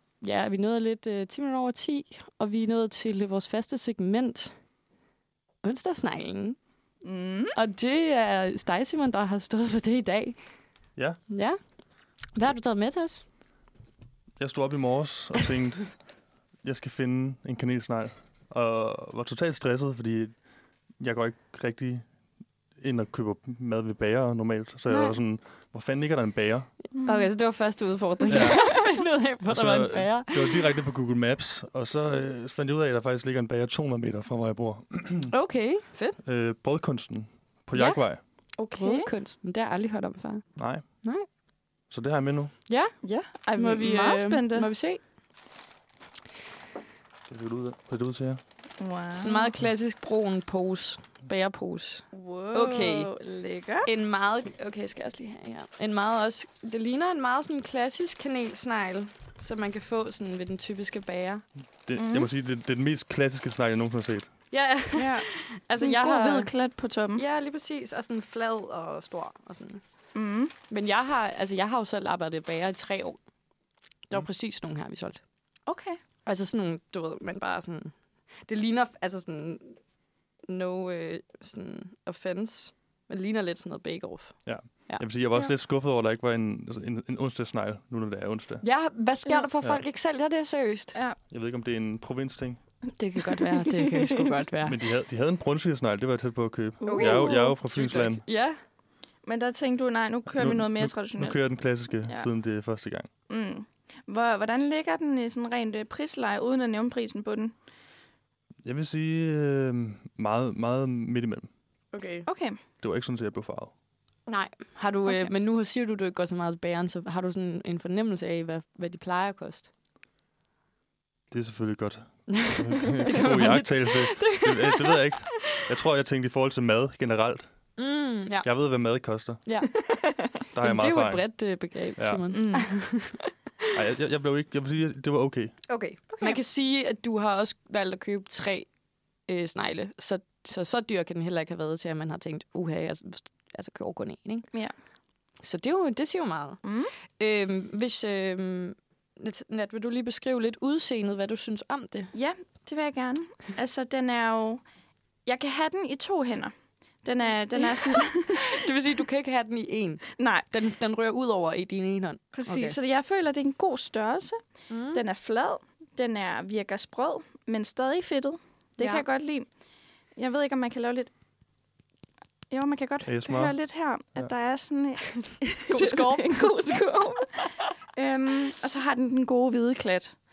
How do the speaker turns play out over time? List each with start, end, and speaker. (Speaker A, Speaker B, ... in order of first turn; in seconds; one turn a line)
Speaker A: 0.2-4.5
Speaker A: 5.6-6.6
Speaker B: 7.0-7.5
Speaker A: 7.5-10.4
Speaker A: 11.3-11.6
Speaker A: 12.3-13.2
Speaker C: 14.4-16.0
Speaker C: 16.6-20.4
Speaker C: 21.0-22.1
Speaker C: 22.8-26.7
Speaker A: 24.9-25.2
Speaker A: 26.9-30.6
Speaker B: 27.0-27.2
Speaker C: 28.3-28.8
Speaker B: 28.4-28.6
Speaker C: 29.5-35.3
Speaker A: 35.3-36.2
Speaker C: 36.2-38.2
Speaker A: 37.7-38.0
Speaker B: 38.6-39.1
Speaker A: 38.7-41.2
Speaker C: 40.6-40.8
Speaker C: 41.9-42.5
Speaker A: 42.7-42.9
Speaker B: 43.0-44.7
Speaker A: 43.5-45.0
Speaker C: 47.3-48.4
Speaker B: 48.8-49.5
Speaker A: 49.1-53.1
Speaker B: 52.1-53.9
Speaker A: 53.8-61.4
Speaker C: 61.9-64.3
Speaker B: 62.0-62.3
Speaker A: 64.5-66.5
Speaker B: 64.9-67.2
Speaker A: 67.1-69.8
Speaker B: 70.1-70.5
Speaker A: 70.7-73.2
Speaker A: 74.1-75.2
Speaker B: 75.7-76.0
Speaker A: 76.2-77.9
Speaker A: 78.5-79.8
Speaker A: 80.5-85.0
Speaker C: 84.5-88.6
Speaker A: 88.6-91.0
Speaker C: 91.3-92.6
Speaker A: 92.9-94.8
Speaker B: 93.4-94.0
Speaker C: 94.6-98.2
Speaker B: 96.8-97.5
Speaker A: 96.8-98.6
Speaker B: 99.2-101.4
Speaker C: 100.3-103.1
Speaker B: 103.3-107.5
Speaker C: 108.6-111.5
Speaker A: 111.9-112.2
Speaker B: 112.2-112.6
Speaker C: 112.8-113.7
Speaker A: 114.3-119.7
Speaker C: 121.3-127.5
Speaker A: 122.3-125.4
Speaker A: 127.8-128.5
Speaker C: 128.4-129.4
Speaker A: 129.4-133.7
Speaker C: 130.5-131.3
Speaker C: 132.0-132.2
Speaker B: 132.3-132.7
Speaker C: 133.7-135.6
Speaker A: 135.7-138.7
Speaker B: 136.1-136.4
Speaker A: 139.3-144.5
Speaker A: 145.4-152.1
Speaker B: 146.6-146.9
Speaker B: 152.1-154.6
Speaker B: 155.2-156.5
Speaker B: 157.0-158.5
Speaker A: 157.6-162.8
Speaker B: 160.2-160.4
Speaker B: 162.3-164.4
Speaker A: 164.7-165.0
Speaker B: 164.9-169.5
Speaker A: 168.8-169.0
Speaker B: 170.2-171.1
Speaker B: 172.5-180.1
Speaker C: 173.1-173.5
Speaker A: 175.7-176.5